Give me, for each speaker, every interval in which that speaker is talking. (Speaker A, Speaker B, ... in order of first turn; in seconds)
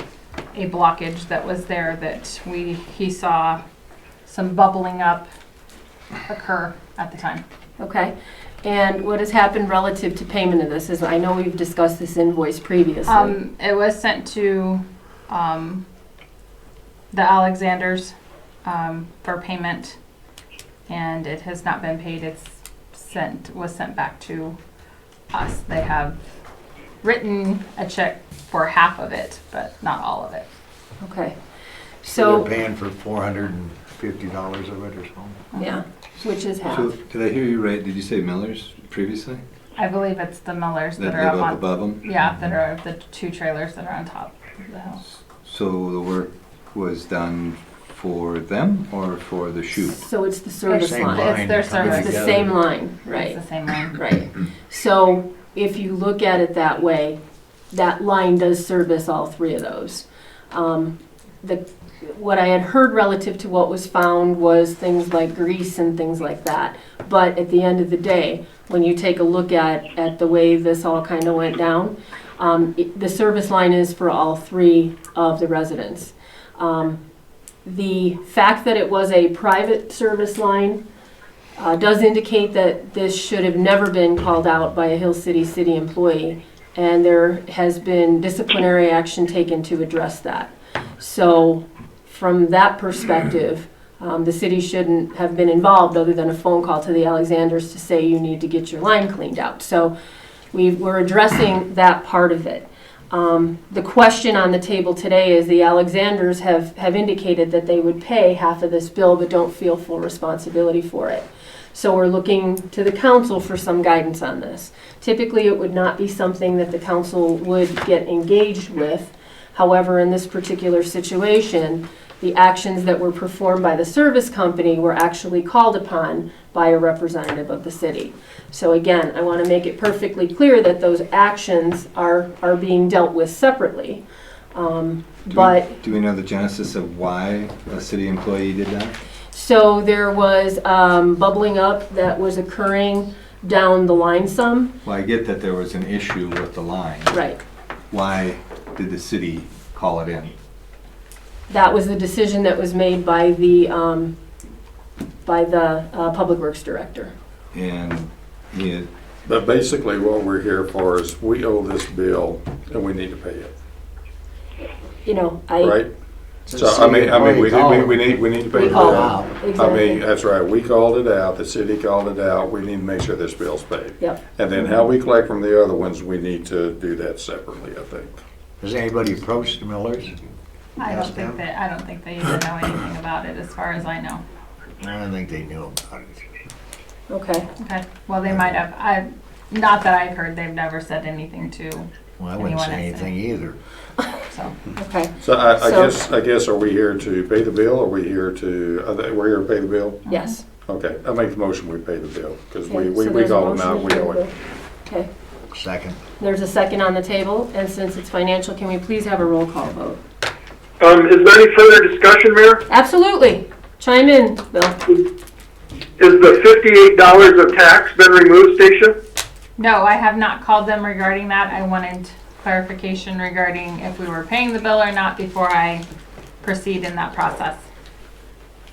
Speaker A: 0.5-3.6, 4.3-5.3, 6.3-7.4, 13.1-15.8, 17.1-18.1, 18.6-20.0, 20.9-24.6, 25.3-26.2, 27.0-30.5, 39.8-45.0, 50.7-52.5, 53.1-54.0, 180.8-184.2, 187.6-193.1, 194.3-194.6, 200.1-200.4, 219.6-225.8, 226.4-227.6
Speaker B: 7.8-13.4, 31.0-31.4, 32.0-32.5, 35.6-36.9, 49.9-53.4, 53.9-57.2, 57.7-77.0, 77.7-80.8, 81.6-99.9, 100.5-135.8, 139.3-144.7, 147.1-147.4, 151.5-154.1, 155.2-157.1, 165.1-165.8, 168.5-170.0, 174.0-174.6, 187.1-187.5, 194.8-195.9, 200.1-200.4, 202.7-204.3, 206.2-210.0, 212.7-215.0
Speaker C: 32.1-35.4, 50.8-52.5, 166.5-169.3, 178.6-180.2, 180.8-181.4, 184.8-186.2, 192.2-193.6, 205.5-206.0
Speaker D: 36.6-39.4, 41.0-42.6, 45.5-50.0, 135.3-139.0, 144.8-147.2, 147.9-150.3, 157.5-158.9
Speaker E: 159.3-163.5, 165.6-165.9, 166.5-178.2, 195.2-200.1, 200.7-204.3
Speaker F: 210.8-212.6, 216.0-219.0